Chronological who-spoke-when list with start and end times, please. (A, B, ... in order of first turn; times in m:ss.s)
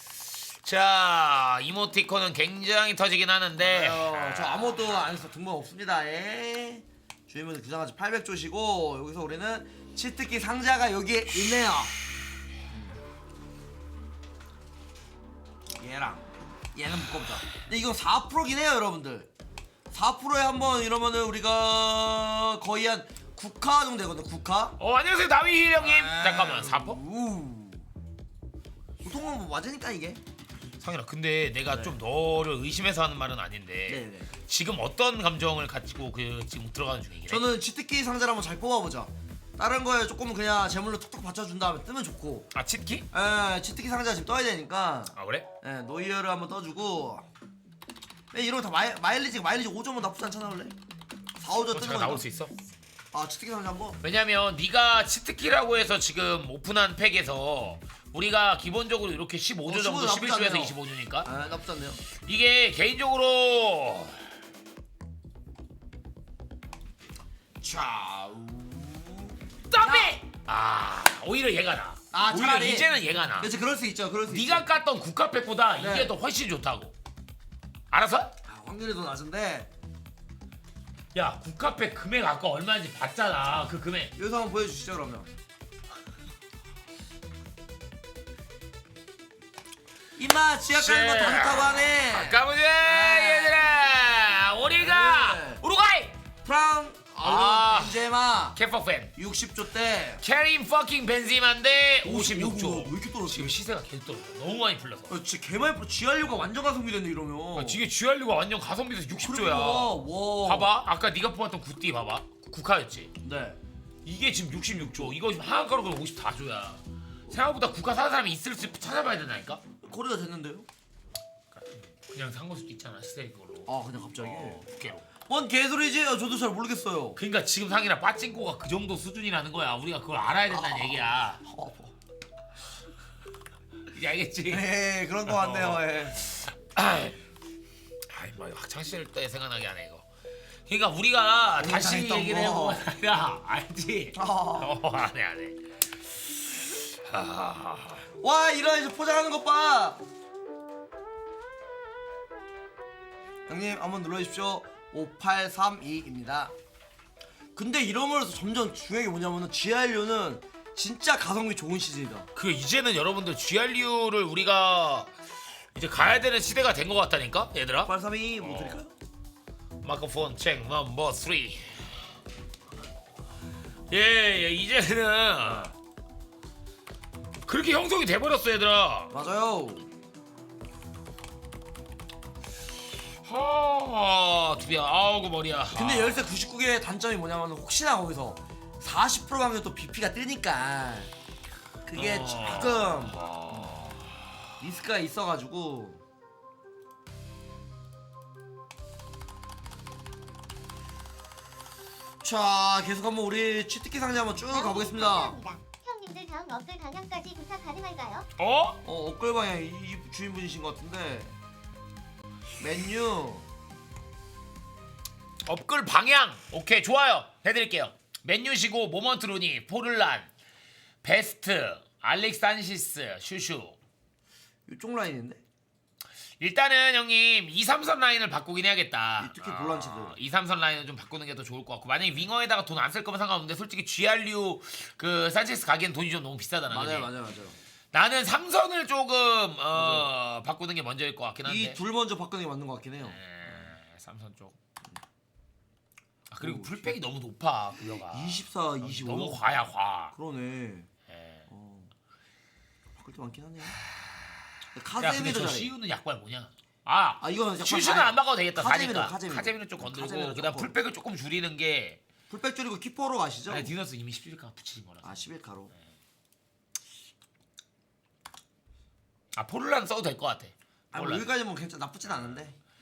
0:00.6-0:05.0 A
0:03.6-0:11.9 B
0:15.8-0:19.3 B
0:19.9-0:24.8 B
0:24.8-0:27.0 A
0:25.8-0:27.9 B
0:29.0-0:30.2 B
0:30.8-0:37.4 A
0:31.7-0:32.0 B
0:33.9-0:34.3 B
0:37.3-0:42.5 B
0:42.5-0:43.1 A
0:43.1-0:47.3 B
0:45.1-0:45.5 A
0:48.3-0:50.8 B
0:51.4-0:52.2 B
0:51.7-0:52.5 A
0:53.1-0:54.0 B
0:54.0-1:01.3 A
0:59.7-1:02.0 B
1:02.1-1:04.2 A
1:07.6-1:10.1 B
1:09.7-1:13.5 A
1:12.1-1:14.6 B
1:14.3-1:16.9 A
1:15.8-1:16.1 B
1:17.9-1:18.3 A
1:18.5-1:19.7 B
1:21.1-1:24.1 A
1:24.2-1:25.3 B
1:30.2-1:33.7 B
1:30.8-1:36.2 A
1:34.7-1:35.6 B
1:36.4-1:38.6 B
1:37.2-1:38.0 A
1:38.6-1:39.1 A
1:39.2-1:40.2 B
1:40.2-1:45.2 A
1:42.0-1:43.6 B
1:45.1-1:47.8 B
1:47.6-1:53.1 A
1:49.2-1:50.7 B
1:53.2-1:53.6 B
1:54.0-1:59.6 A
1:59.8-2:00.7 B
2:01.5-2:05.1 A
2:03.7-2:04.6 B
2:05.3-2:07.2 B
2:07.2-2:11.4 A
2:10.5-2:11.9 B
2:13.9-2:14.7 A
2:14.5-2:16.2 B
2:15.3-2:17.2 A
2:18.1-2:20.0 A
2:20.7-2:25.6 A
2:21.6-2:22.8 B
2:24.2-2:24.7 B
2:27.0-2:28.0 A
2:28.2-2:30.0 B
2:33.5-2:36.5 B
2:37.6-2:42.3 B
2:42.4-2:45.1 A
2:45.8-2:48.8 A
2:47.8-2:48.9 B
2:49.8-2:51.9 A
2:53.9-2:55.7 A
2:57.5-2:59.1 A
2:59.1-2:59.9 B
3:03.2-3:06.3 A
3:05.7-3:11.1 B
3:11.9-3:13.7 B
3:11.9-3:14.2 A
3:14.6-3:16.0 B
3:22.2-3:25.4 B
3:24.5-3:28.3 C
3:28.4-3:28.8 A
3:28.8-3:31.4 B
3:32.6-3:33.5 B
3:35.5-3:40.3 A
3:41.0-3:43.8 A
3:44.7-3:45.4 B
3:46.4-3:57.1 A
3:49.2-3:50.2 B
3:56.7-3:57.6 B
3:57.9-4:01.8 A
3:59.7-4:00.1 B
4:01.5-4:03.2 B
4:03.0-4:04.6 A
4:06.3-4:10.2 A
4:06.4-4:07.0 B
4:08.1-4:09.4 B
4:10.1-4:10.9 B
4:11.1-4:11.5 A
4:11.5-4:11.9 B
4:13.0-4:13.8 B
4:14.8-4:15.7 B
4:15.0-4:22.0 A
4:17.2-4:20.7 B
4:22.3-4:23.7 B
4:23.5-4:25.2 A
4:25.0-4:25.7 B
4:29.3-4:31.3 A
4:30.9-4:32.6 B